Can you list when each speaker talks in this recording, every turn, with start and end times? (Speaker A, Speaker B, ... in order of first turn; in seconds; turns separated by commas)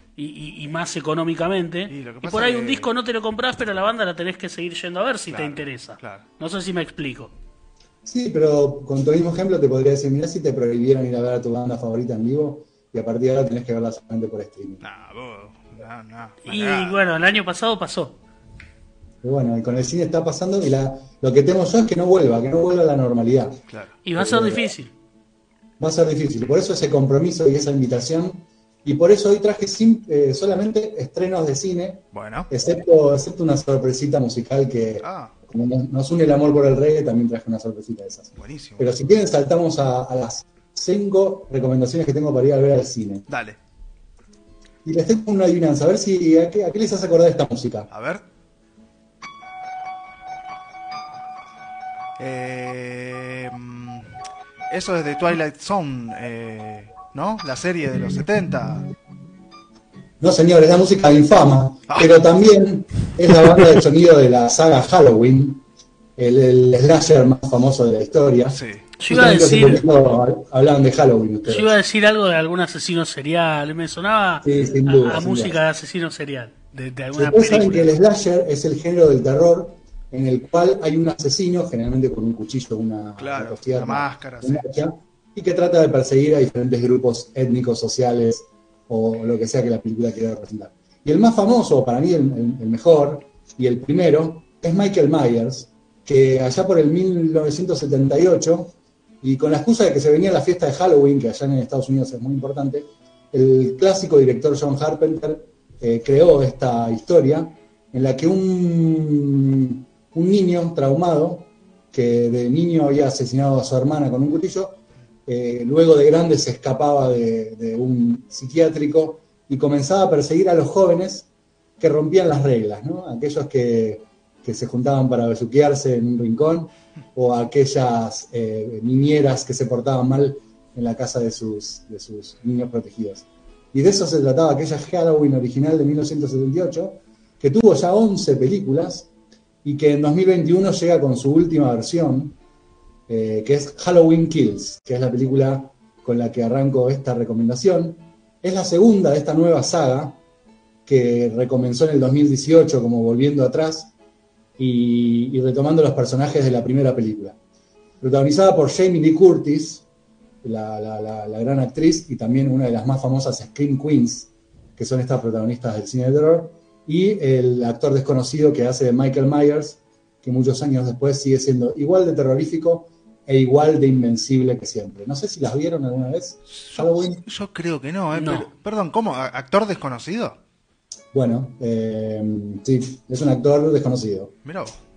Speaker A: 0.2-7.3, Speaker B: 1.9-2.9, Speaker B: 5.3-6.2, Speaker C: 8.1-14.8, Speaker B: 14.8-17.0, Speaker A: 16.4-18.2, Speaker C: 19.2-23.6, Speaker B: 23.7-24.0, Speaker A: 24.1-24.9, Speaker C: 24.2-24.7, Speaker C: 25.8-43.3, Speaker B: 32.1-32.5, Speaker B: 35.0-35.3, Speaker B: 38.4-38.9, Speaker B: 43.3-43.6, Speaker C: 44.9-47.9, Speaker B: 47.9-48.2, Speaker B: 52.2-54.1, Speaker B: 54.7-58.9, Speaker C: 60.2-65.6, Speaker B: 61.9-62.2, Speaker C: 66.2-71.8, Speaker B: 68.5-68.9, Speaker A: 69.0-69.8, Speaker A: 71.5-77.9, Speaker C: 74.4-75.6, Speaker C: 77.2-121.3, Speaker B: 83.2-84.7, Speaker C: 121.8-139.1, Speaker C: 139.6-142.4, Speaker C: 143.1-150.2, Speaker C: 150.9-153.9, Speaker C: 154.6-157.4, Speaker C: 158.0-159.8, Speaker C: 160.4-177.2, Speaker B: 176.5-180.4, Speaker A: 178.1-178.5, Speaker C: 181.1-184.3, Speaker B: 184.4-184.8